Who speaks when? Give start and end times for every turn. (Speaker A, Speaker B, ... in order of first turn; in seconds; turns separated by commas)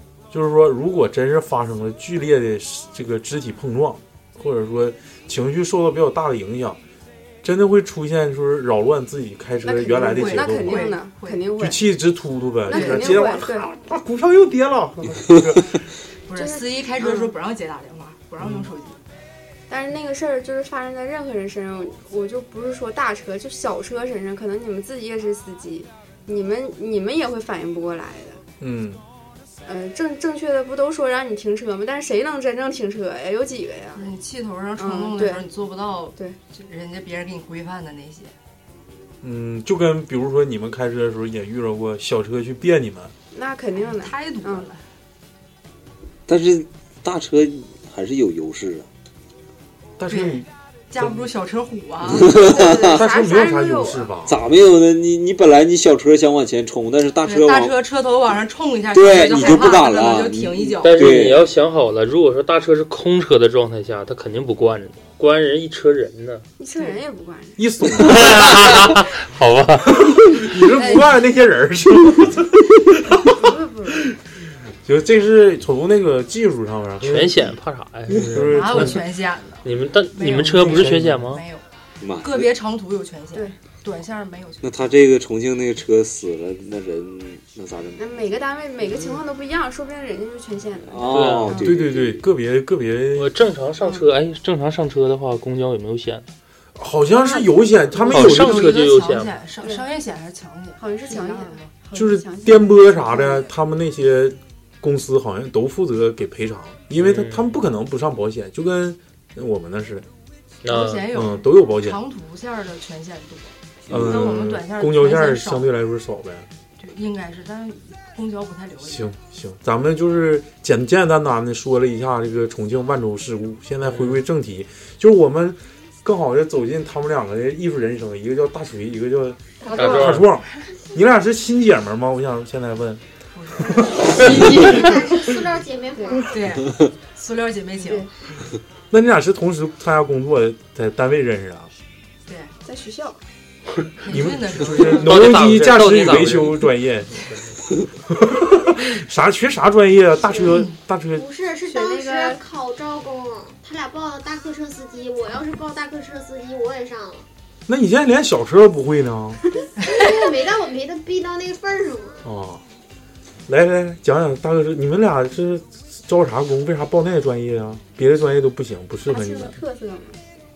Speaker A: 0.3-6.8, Speaker A: 7.4-10.9, Speaker B: 9.7-11.9, Speaker C: 10.0-11.5, Speaker A: 11.6-15.7, Speaker B: 12.7-13.7, Speaker C: 12.7-13.3, Speaker C: 16.3-19.0, Speaker B: 16.4-17.3, Speaker A: 18.4-18.7, Speaker B: 19.7-28.4, Speaker A: 28.6-29.0, Speaker B: 29.7-34.1, Speaker C: 33.9-38.3, Speaker B: 34.8-35.5, Speaker A: 39.2-43.1, Speaker B: 43.3-44.7, Speaker C: 43.8-44.8, Speaker D: 46.3-48.9, Speaker A: 50.0-50.5, Speaker C: 50.1-52.3, Speaker D: 52.1-53.0, Speaker B: 52.3-54.1, Speaker A: 52.9-54.4, Speaker D: 54.3-57.8, Speaker C: 57.2-61.2, Speaker D: 58.9-61.5, Speaker E: 60.8-66.5, Speaker B: 66.6-67.6, Speaker A: 67.6-69.0, Speaker E: 68.0-69.9, Speaker A: 70.0-73.3, Speaker C: 70.7-71.1, Speaker B: 73.3-74.0, Speaker A: 74.8-77.6, Speaker E: 77.0-79.0, Speaker A: 78.1-79.0, Speaker C: 78.3-81.7, Speaker E: 79.6-81.4, Speaker A: 80.5-81.2, Speaker D: 82.0-82.5, Speaker C: 82.2-84.8, Speaker D: 84.6-88.1, Speaker B: 88.0-91.8, Speaker C: 88.9-89.2, Speaker D: 90.9-92.1, Speaker E: 91.1-91.6, Speaker A: 91.6-93.3, Speaker E: 93.2-96.3, Speaker A: 96.8-98.7, Speaker B: 97.1-97.6, Speaker C: 98.0-101.7, Speaker E: 98.1-99.4, Speaker B: 99.6-99.9, Speaker B: 100.8-103.5, Speaker A: 102.0-110.1, Speaker E: 107.0-107.5, Speaker E: 110.6-111.1, Speaker C: 110.7-115.7, Speaker A: 111.1-112.0, Speaker D: 113.9-114.3, Speaker A: 113.9-116.5, Speaker C: 116.8-119.1, Speaker A: 118.9-133.0, Speaker B: 129.6-130.2, Speaker E: 129.8-130.3, Speaker C: 133.3-133.9, Speaker A: 133.6-135.2, Speaker F: 134.1-136.3, Speaker B: 135.9-136.2, Speaker C: 136.2-138.1, Speaker A: 138.9-141.7, Speaker C: 142.3-142.5, Speaker B: 142.7-143.2, Speaker C: 144.0-145.1, Speaker A: 144.1-147.3, Speaker E: 145.0-146.7, Speaker A: 148.1-151.3, Speaker C: 150.5-150.8, Speaker F: 151.2-157.3, Speaker B: 151.7-152.4, Speaker A: 157.7-159.4, Speaker C: 159.8-160.1, Speaker F: 159.8-162.3, Speaker A: 162.2-162.6, Speaker A: 163.5-169.6, Speaker B: 169.1-170.2